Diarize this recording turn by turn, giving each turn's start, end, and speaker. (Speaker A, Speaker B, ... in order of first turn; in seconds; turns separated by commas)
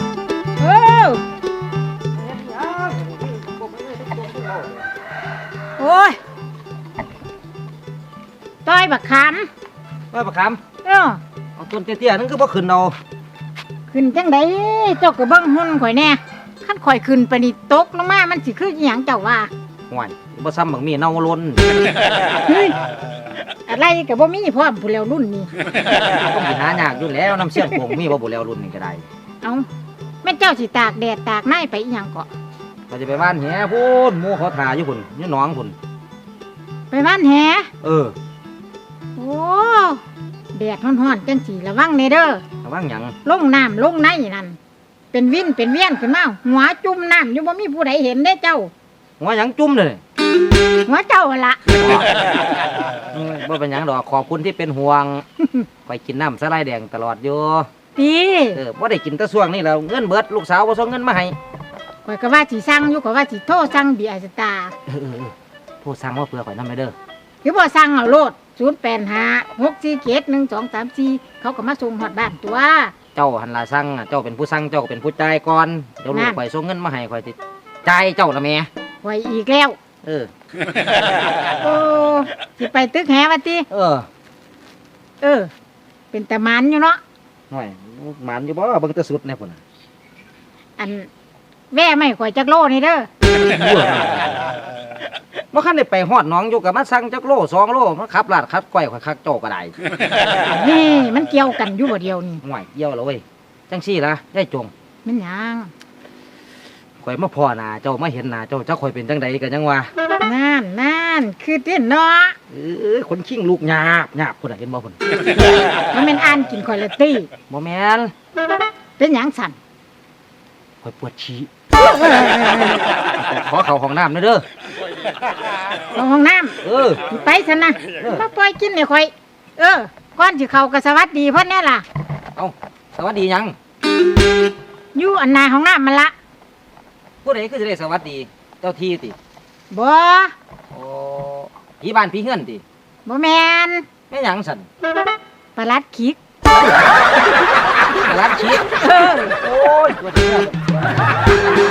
Speaker A: 0.6-1.2, Speaker B: 2.2-4.8, Speaker A: 5.8-6.2, Speaker A: 8.6-9.5, Speaker B: 10.1-10.6, Speaker A: 10.8-11.2, Speaker B: 11.6-12.9, Speaker A: 13.9-19.5, Speaker B: 19.9-21.8, Speaker A: 22.4-22.8, Speaker A: 23.7-25.5, Speaker B: 26.0-29.0, Speaker A: 30.2-32.3, Speaker B: 32.9-35.7, Speaker A: 36.9-37.7, Speaker B: 37.8-38.1, Speaker A: 39.1-40.0, Speaker A: 40.5-42.4, Speaker B: 42.6-43.1, Speaker A: 43.2-44.6, Speaker A: 45.1-48.7, Speaker B: 49.2-50.0, Speaker A: 50.9-51.7, Speaker B: 51.7-52.1, Speaker B: 53.1-55.2, Speaker B: 55.9-57.7, Speaker A: 58.0-58.6, Speaker B: 58.5-61.4, Speaker A: 62.0-64.7, Speaker B: 64.8-66.9, Speaker A: 67.4-72.9, Speaker B: 73.1-78.7, Speaker A: 76.1-76.4, Speaker A: 79.0-79.8, Speaker B: 80.0-80.3, Speaker A: 81.6-83.7, Speaker B: 83.7-84.1, Speaker A: 85.2-85.5, Speaker A: 86.1-87.0, Speaker B: 87.5-89.6, Speaker A: 90.8-91.1, Speaker A: 91.7-93.1, Speaker B: 93.3-94.4, Speaker B: 95.5-99.8, Speaker A: 100.4-102.4, Speaker B: 102.4-104.7, Speaker A: 105.0-105.7, Speaker B: 107.0-109.9, Speaker A: 110.2-112.3, Speaker B: 112.5-115.0, Speaker A: 115.9-117.3, Speaker B: 117.5-118.1, Speaker A: 119.0-119.5, Speaker B: 120.8-121.5, Speaker B: 122.8-124.4, Speaker A: 125.9-131.8, Speaker B: 126.6-127.0, Speaker B: 132.3-133.6, Speaker A: 134.9-136.1, Speaker B: 137.2-139.2, Speaker A: 139.7-140.3, Speaker B: 140.7-142.6, Speaker A: 143.1-143.8, Speaker B: 144.1-144.7, Speaker A: 145.6-146.2, Speaker B: 147.9-150.8, Speaker A: 148.8-149.3